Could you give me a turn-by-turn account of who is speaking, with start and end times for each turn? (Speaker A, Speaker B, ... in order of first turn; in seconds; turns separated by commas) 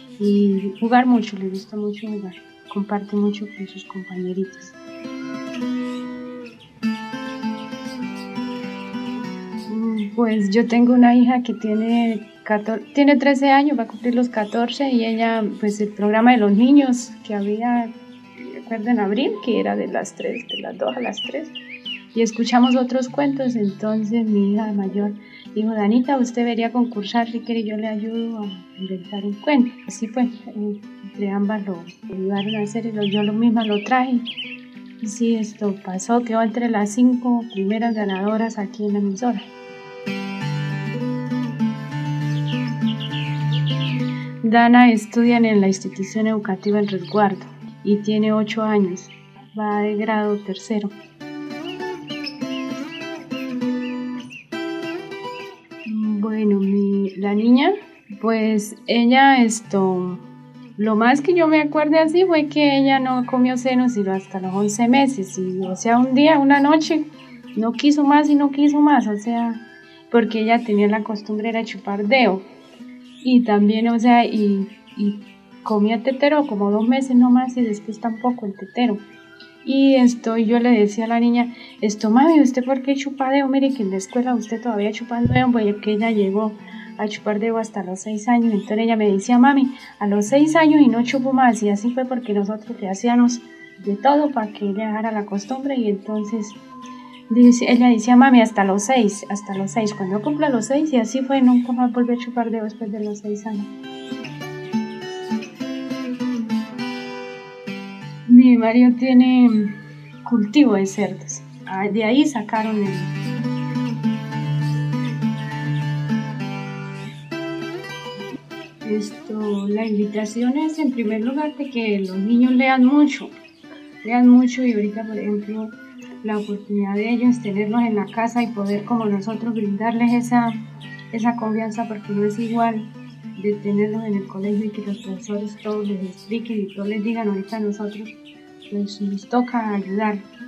Speaker A: 0.2-4.7, Speaker A: 9.7-17.9, Speaker A: 18.4-21.5, Speaker A: 22.1-34.3, Speaker A: 35.0-39.5, Speaker A: 44.4-50.9, Speaker A: 55.9-60.2, Speaker A: 60.8-67.0, Speaker A: 67.5-72.4, Speaker A: 73.2-79.0, Speaker A: 79.6-96.6, Speaker A: 97.3-103.7, Speaker A: 108.3-113.1, Speaker A: 118.8-123.3, Speaker A: 124.0-130.6, Speaker A: 131.1-138.1, Speaker A: 138.7-140.2